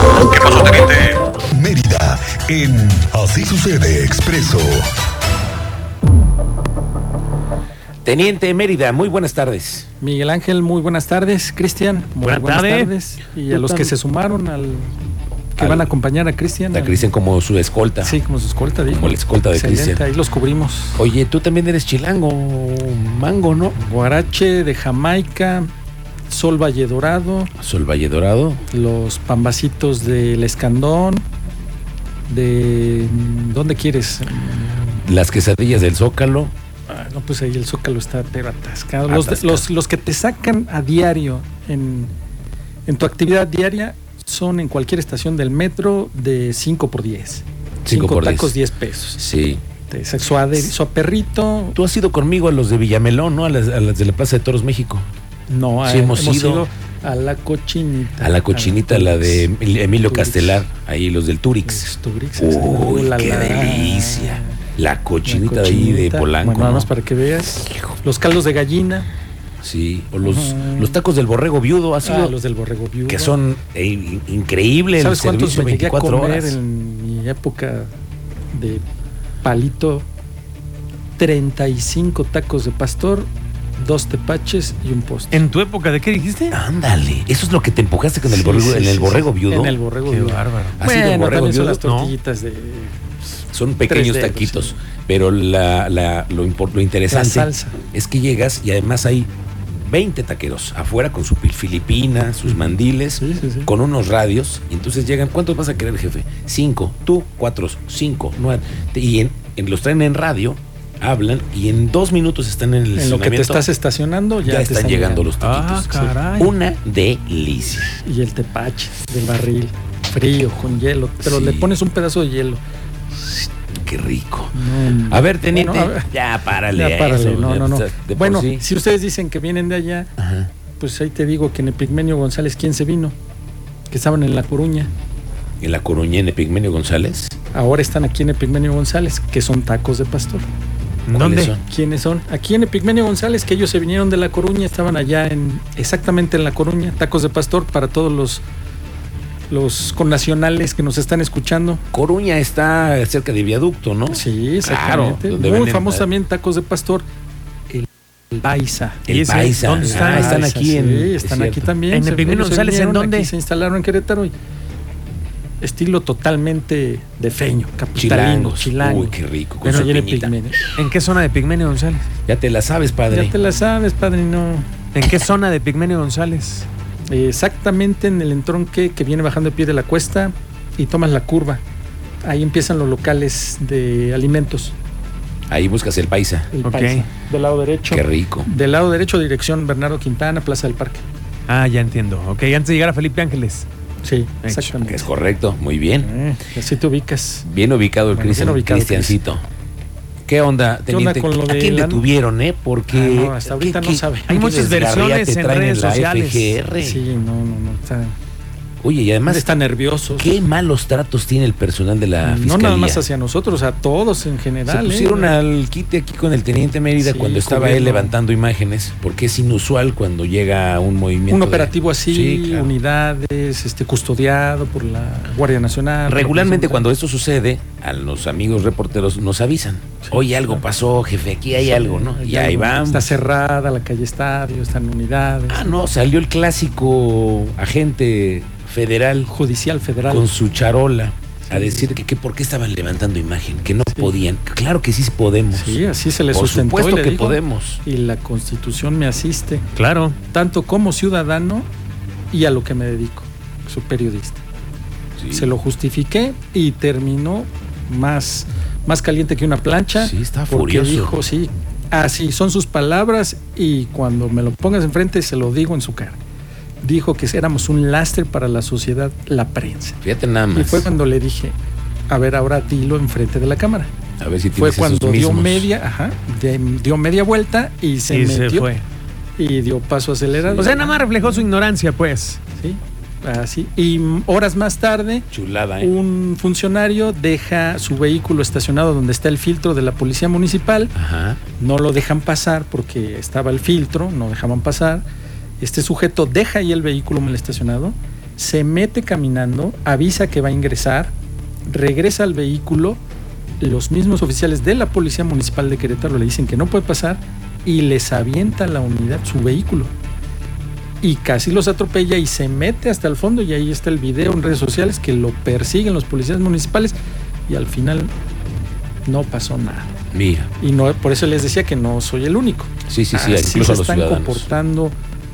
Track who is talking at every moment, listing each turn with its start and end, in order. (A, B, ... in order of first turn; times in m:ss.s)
0:00.3-0:00.9 A
0:01.5-0:04.9 A
0:08.0-0:09.9 B
0:10.0-0:14.9 C
0:12.2-0:12.9 D
0:13.5-0:13.9 B
0:15.6-0:17.1 C
0:15.6-0:15.9 B
0:16.7-0:18.2 B
0:18.0-0:21.0 C
0:18.9-0:20.0 B
0:21.0-0:23.8 B
0:23.8-0:25.7 C
0:26.3-0:27.5 C
0:27.6-0:28.6 B
0:28.7-0:31.2 C
0:32.3-0:35.0 C
0:35.0-0:36.5 B
0:36.9-0:42.1 C
0:39.1-0:39.7 B
0:42.9-0:49.2 C
0:47.8-0:48.6 B
0:49.2-0:49.6 B
0:49.9-0:51.8 C
0:51.8-0:55.1 B
0:55.5-0:59.5 C
0:55.8-0:56.7 B
0:58.2-1:06.9 B
1:00.0-1:00.7 C
1:01.6-1:04.6 C
1:05.2-1:09.1 C
1:09.6-1:12.4 B
1:10.2-1:11.0 C
1:12.0-1:13.4 C
1:13.1-1:16.6 B
1:15.0-1:17.9 C
1:18.5-1:18.8 C
1:19.4-1:20.1 C
1:21.2-1:25.4 C
1:25.3-1:26.6 D
1:26.5-1:29.8 B
1:28.2-1:33.0 C
1:30.1-1:30.8 D
1:30.8-1:31.8 B
1:31.8-1:32.2 D
1:33.5-1:39.3 B
1:33.9-1:34.8 C
1:37.1-1:37.8 C
1:39.8-1:53.6 B
1:42.5-1:43.7 C
1:53.0-1:56.2 C
1:54.4-1:58.0 B
1:55.6-1:56.5 D
1:58.0-2:02.6 C
2:01.2-2:01.8 B
2:03.2-2:03.5 C
2:03.8-2:08.6 B
2:04.5-2:06.1 C
2:06.7-2:10.1 C
2:10.2-2:10.5 B
2:10.8-2:13.2 C
2:13.9-2:14.9 C
2:15.6-2:17.4 B
2:17.5-2:20.5 C
2:21.1-2:21.5 D
2:21.2-2:21.6 B
2:21.6-2:28.4 C
2:29.5-2:31.8 C
2:31.9-2:36.1 B
2:34.1-2:37.1 C
2:37.7-2:39.1 C
2:39.1-2:41.7 B
2:39.1-2:40.4 D
2:39.8-2:44.3 C
2:41.9-2:43.3 D
2:45.6-2:50.8 C
2:48.0-2:50.4 B
2:50.8-2:52.1 D
2:52.3-2:53.3 B
2:53.1-2:54.7 C
2:55.0-2:56.7 D
2:57.1-3:01.6 C
3:02.2-3:04.8 C
3:05.5-3:06.5 B
3:06.5-3:11.0 C
3:06.6-3:07.0 D
3:07.9-3:08.5 B
3:11.5-3:13.7 D
3:14.0-3:15.1 C
3:14.4-3:14.8 D
3:14.8-3:16.1 B
3:16.0-3:17.5 C
3:17.4-3:19.4 B
3:18.1-3:19.2 C
3:20.3-3:27.0 B
3:20.9-3:22.0 C
3:22.9-3:24.3 C
3:24.3-3:26.6 D
3:26.8-3:28.2 C
3:28.8-3:29.5 B
3:29.3-3:30.4 C
3:30.1-3:33.0 B
3:32.2-3:35.3 C
3:34.7-3:42.7 B
3:37.0-3:38.2 C
3:41.3-3:46.9 C
3:46.1-3:53.2 B
3:50.0-3:50.6 C
3:51.6-3:55.7 C
3:55.5-3:59.3 B
3:59.3-4:00.3 C
4:00.1-4:05.8 B
4:01.5-4:02.0 C
4:05.5-4:09.7 C
4:06.3-4:07.8 B
4:09.8-4:10.2 D
4:10.3-4:11.7 C
4:12.3-4:14.4 C
4:15.2-4:15.5 B
4:15.3-4:26.2 C
4:20.0-4:21.2 B
4:26.8-4:30.0 C
4:30.0-4:30.9 B
4:30.5-4:31.6 C
4:32.1-4:33.9 C
4:34.2-4:35.7 B
4:34.5-4:38.7 C
4:38.1-4:38.8 D
4:39.4-4:41.4 C
4:40.3-4:40.8 B
4:40.6-4:42.4 D
4:42.6-4:45.3 C
4:45.3-4:45.9 B
4:45.8-4:50.9 C
4:51.0-4:51.4 B
4:51.6-4:55.0 C
4:55.6-5:01.1 C
5:01.7-5:03.0 C
5:03.6-5:09.9 C
5:11.0-5:17.0 C
5:17.5-5:18.1 C
5:19.1-5:20.0 C
5:20.1-5:20.5 B
5:20.6-5:25.0 C
5:22.9-5:24.5 B